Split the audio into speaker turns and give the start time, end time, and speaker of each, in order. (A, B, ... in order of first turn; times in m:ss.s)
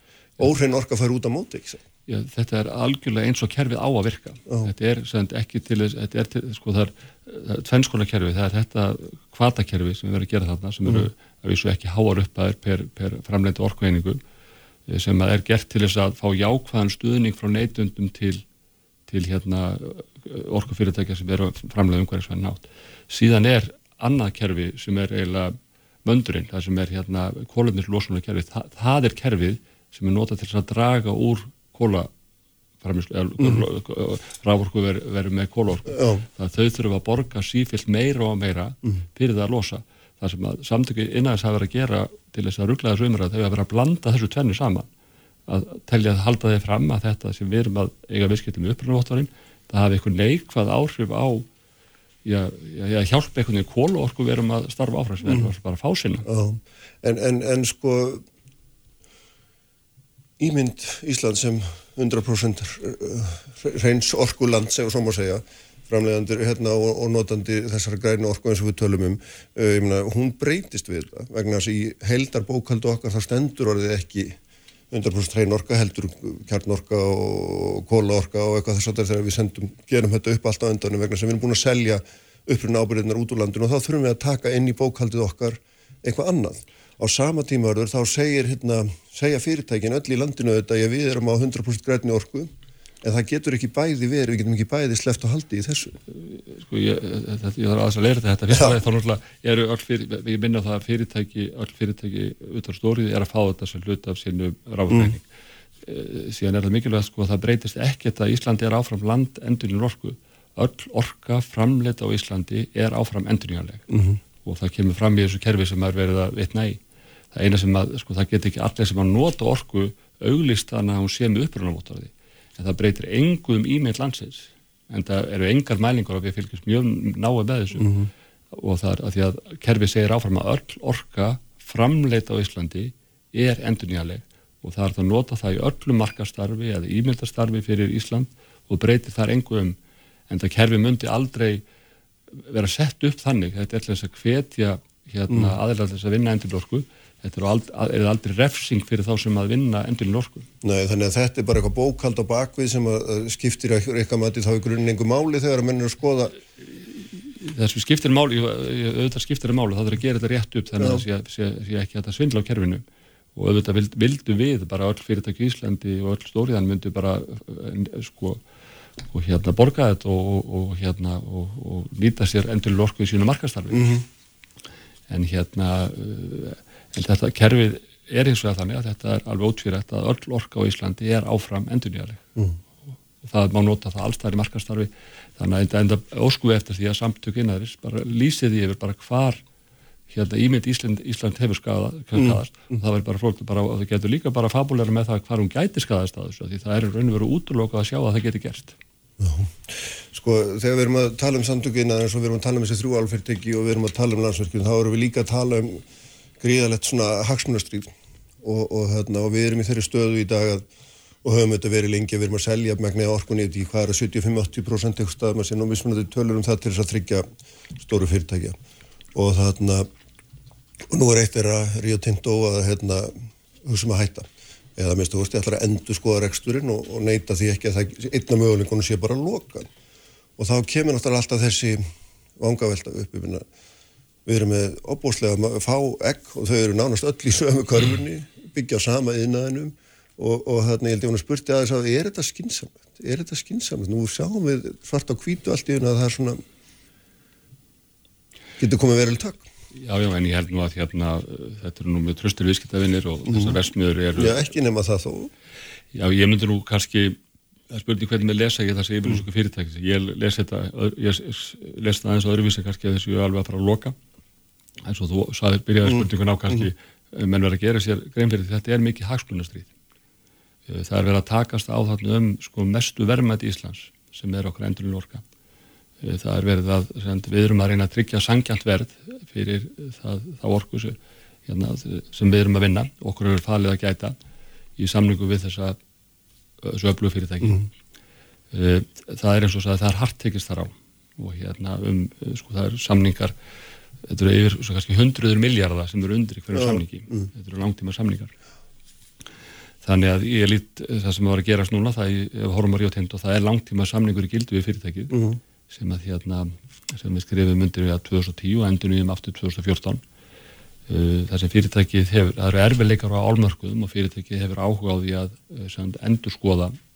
0:00.4-0:01.8 A
0:02.1-0:14.2 B
0:14.9-0:18.4 B
0:19.1-0:32.1 B
0:32.8-0:44.9 B
0:35.9-0:36.2 A
0:45.5-0:51.4 B
0:52.2-0:56.2 B
0:56.2-0:58.2 A
1:00.4-1:14.4 A
1:14.9-1:35.9 A
1:36.1-1:45.2 B
1:38.5-1:38.8 A
1:44.9-1:45.2 A
1:45.8-1:53.9 B
1:53.9-1:54.2 A
1:54.4-1:56.8 B
1:57.3-2:07.9 B
2:07.8-2:08.1 A
2:08.5-2:19.8 B
2:20.3-2:21.6 B
2:22.5-2:30.5 B
2:25.3-2:25.6 A
2:30.6-2:36.4 A
2:37.4-2:42.8 B
2:40.8-2:41.0 A
2:43.4-2:48.4 B
2:49.1-2:54.0 B
2:53.7-2:54.0 A
2:55.1-3:02.2 B
3:03.2-3:09.4 B
3:10.1-3:18.8 B
3:12.1-3:12.8 A
3:19.2-3:25.8 A
3:26.4-3:30.7 A
3:31.2-3:38.6 A
3:39.1-3:39.9 A
3:40.9-3:49.7 A
3:50.4-3:53.4 A
3:54.2-4:06.4 A
4:08.6-4:09.4 A
4:09.8-4:14.5 B
4:13.3-4:13.6 A
4:14.1-4:15.3 A
4:15.9-4:17.2 B
4:17.7-4:23.9 B
4:24.8-4:29.7 B
4:25.8-4:26.6 A
4:30.7-4:35.2 B
4:36.0-4:44.2 B
4:44.8-4:45.8 B
4:46.6-4:47.7 B
4:48.5-4:53.3 B
4:54.1-4:58.3 B
4:56.5-4:57.3 A
4:59.8-5:10.0 B
5:05.1-5:05.4 A
5:10.9-5:16.8 B